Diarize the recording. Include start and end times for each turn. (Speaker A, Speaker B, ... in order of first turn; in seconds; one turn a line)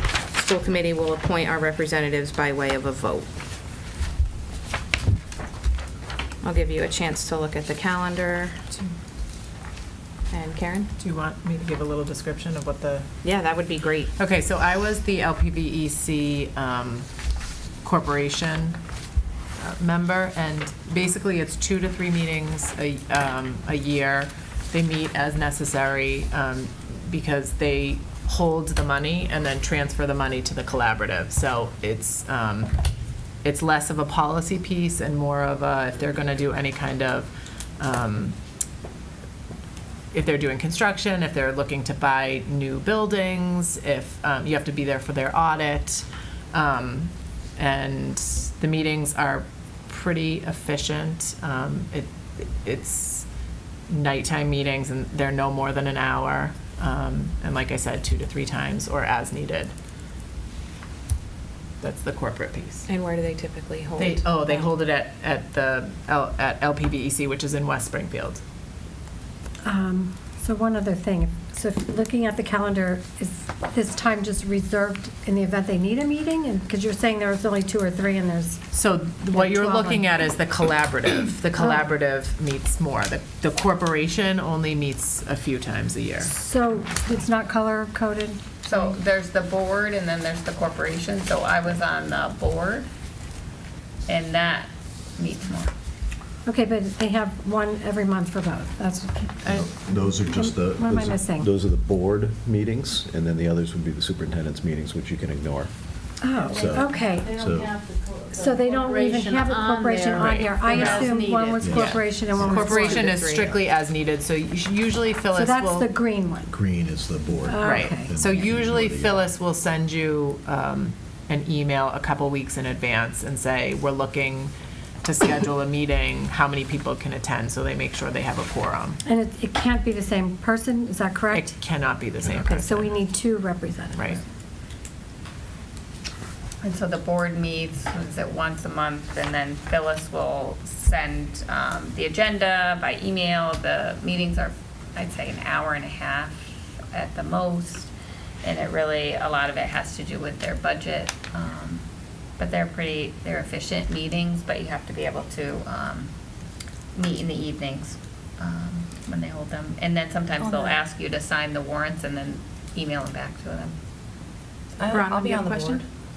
Speaker A: 0.3-3.3
Speaker A: 6.4-8.7
Speaker A: 10.3-10.9
Speaker B: 11.0-13.1
Speaker A: 13.2-14.1
Speaker B: 14.2-17.1
Speaker B: 17.8-18.8
Speaker B: 19.6-32.7
Speaker B: 33.4-38.4
Speaker B: 40.1-53.3
Speaker B: 53.9-59.7
Speaker B: 61.8-62.9
Speaker A: 62.9-64.7
Speaker B: 64.0-68.4
Speaker C: 69.6-78.6
Speaker B: 78.7-86.3
Speaker C: 79.3-80.1
Speaker C: 81.5-81.9
Speaker C: 86.2-88.9
Speaker D: 88.6-92.9
Speaker D: 94.1-95.7
Speaker C: 96.4-101.5
Speaker E: 99.4-105.7
Speaker C: 106.2-107.3
Speaker E: 106.4-107.7
Speaker F: 106.4-111.8
Speaker C: 108.4-113.2
Speaker B: 110.2-111.1
Speaker E: 111.6-112.8
Speaker B: 111.7-115.9
Speaker C: 115.3-116.5
Speaker E: 116.5-119.3
Speaker C: 117.4-118.1
Speaker B: 117.6-124.5
Speaker B: 125.0-129.0
Speaker C: 129.0-131.6
Speaker B: 131.3-132.9
Speaker C: 132.4-134.2
Speaker B: 133.9-134.2
Speaker D: 136.6-147.9
Speaker D: 148.4-151.8
Speaker D: 152.4-156.1
Speaker D: 156.9-163.8
Speaker B: 164.8-165.8
Speaker A: 164.9-165.8